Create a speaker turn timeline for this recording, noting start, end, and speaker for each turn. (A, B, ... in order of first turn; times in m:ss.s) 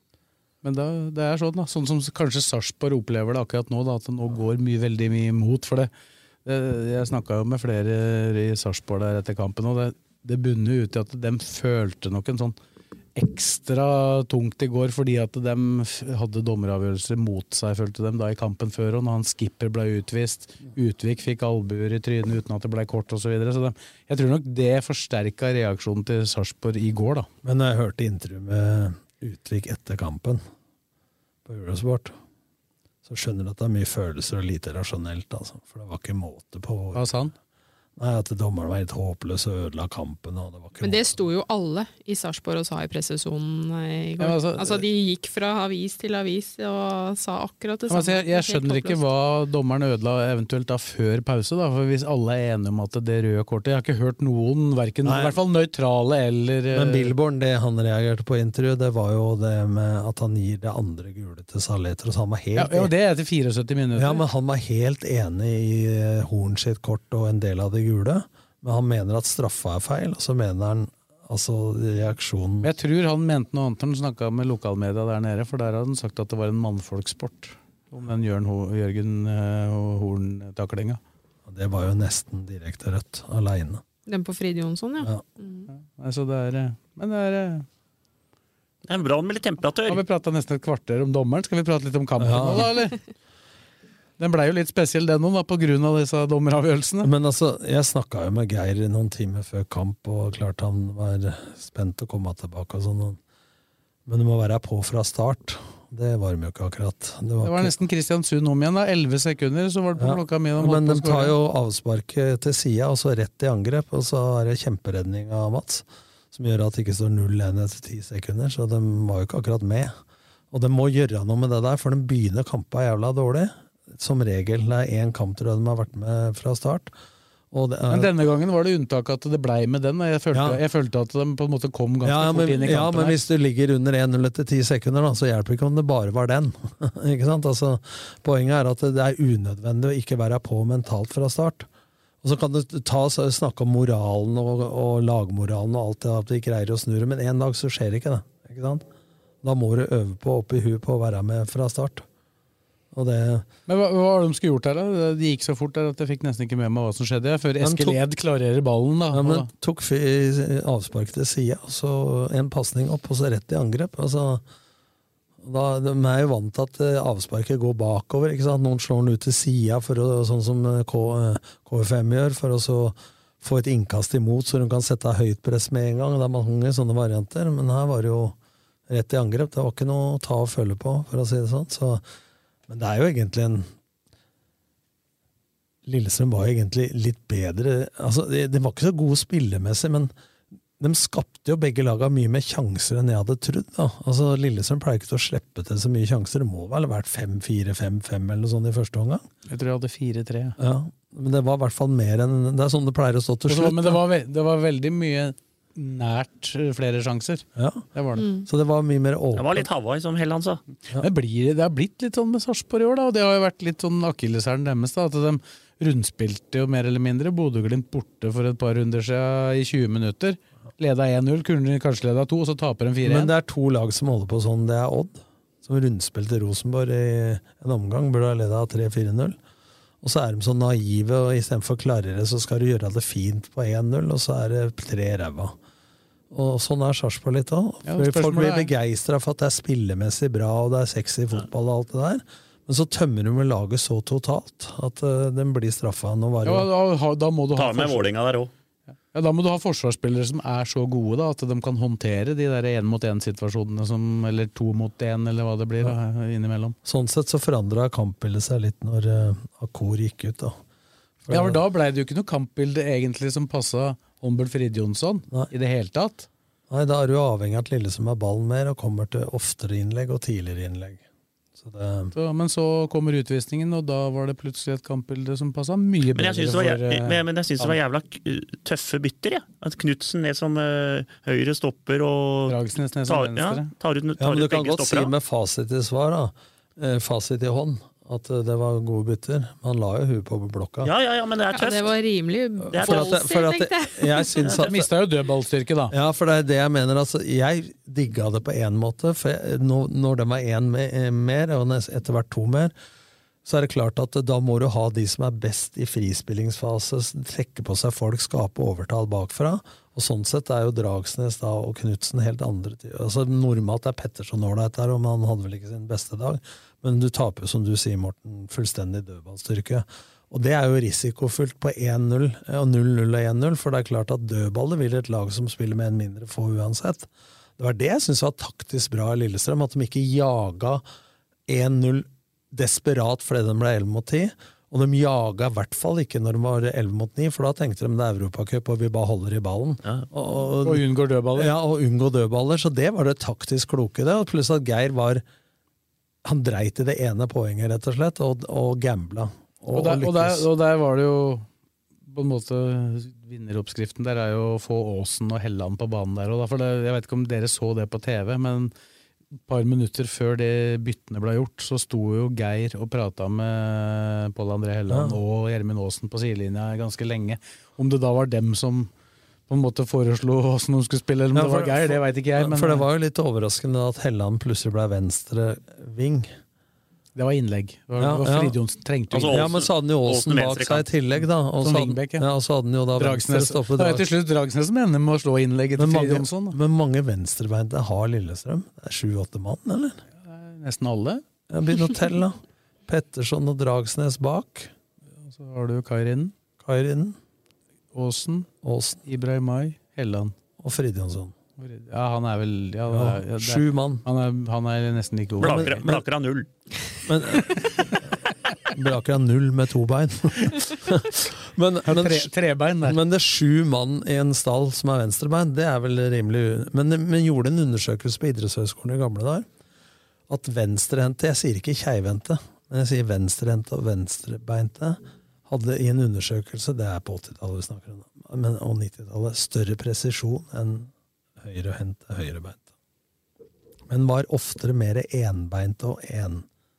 0:00.6-0:05.9 A
0:06.4-0:12.6 A
0:13.2-0:27.3 A
0:27.4-0:30.4 B
0:31.5-0:32.2 B
0:33.0-0:37.1 B
0:36.9-0:37.3 A
0:38.0-0:41.3 B
0:40.8-0:49.0 C
0:44.2-0:44.8 A
0:47.9-0:57.1 A
0:55.0-0:55.4 B
0:56.7-1:02.9 B
1:02.6-1:04.2 A
1:04.0-1:12.7 B
1:12.6-1:21.0 A
1:21.5-1:23.8 B
1:24.1-1:25.7 C
1:25.7-1:27.7 A
1:28.9-1:30.0 D
1:29.9-1:33.0 A
1:32.2-1:32.7 B
1:34.2-1:37.1 A
1:37.0-1:43.2 B
1:44.1-1:47.7 B
1:47.4-1:51.4 A
1:50.0-1:59.9 B
2:00.5-2:06.9 B
2:07.5-2:08.2 B
2:07.9-2:13.2 A
2:10.3-2:10.6 B
2:12.0-2:21.7 B
2:22.2-2:28.8 B
2:29.4-2:32.0 B
2:32.9-2:33.5 B
2:33.7-2:39.5 A
2:37.6-2:38.0 B
2:39.1-2:44.4 B
2:45.4-2:58.4 B
2:58.9-3:02.0 B
3:02.7-3:03.7 B
3:05.9-3:10.1 B
3:10.8-3:19.3 B
3:19.5-3:20.6 A
3:20.6-3:24.0 B
3:23.5-3:28.2 A
3:27.6-3:27.9 B
3:28.2-3:28.5 C
3:28.4-3:29.7 B
3:29.3-3:30.6 D
3:31.0-3:43.3 A
3:43.0-3:49.4 B
3:50.0-3:55.6 B
3:56.3-4:06.7 B
3:57.8-3:58.7 A
4:06.4-4:08.1 A
4:07.6-4:08.5 D
4:09.1-4:16.8 A
4:16.8-4:20.6 B
4:21.2-4:21.6 B
4:21.3-4:26.3 A
4:26.7-4:31.0 B
4:31.6-4:32.1 B
4:32.1-4:37.8 A
4:36.2-4:45.1 D
4:42.5-4:43.7 A
4:44.2-4:50.9 B
4:50.8-4:52.0 D
4:51.5-4:54.5 C
4:52.7-4:54.9 B
4:52.7-4:53.2 D
4:54.6-4:55.9 A
4:55.9-5:02.7 B
5:03.4-5:30.8 B
5:31.5-5:45.2 B
5:40.6-5:41.5 A
5:46.2-5:50.5 B
5:49.7-5:51.5 A
5:52.1-5:58.7 A
5:59.5-6:08.9 A
6:04.9-6:05.2 B
6:09.5-6:12.9 A
6:11.3-6:16.3 B
6:17.2-6:19.5 A
6:18.0-6:18.6 B
6:19.1-6:20.9 D
6:19.2-6:24.1 B
6:21.6-6:22.3 A
6:23.0-6:26.6 A
6:25.8-6:30.0 B
6:30.2-6:31.2 A
6:31.5-6:34.7 B
6:35.2-6:36.3 A
6:36.6-6:37.2 B
6:37.9-6:38.5 A
6:38.6-6:39.0 B
6:39.1-6:40.4 A
6:40.6-6:41.4 B
6:41.6-6:45.8 A
6:42.9-6:44.0 B
6:45.4-6:46.0 B
6:45.4-6:46.5 D
6:47.1-6:48.0 B
6:48.7-6:52.3 B
6:51.8-6:53.0 A
6:52.8-6:59.5 B
7:00.3-7:12.6 B
7:13.9-7:16.5 B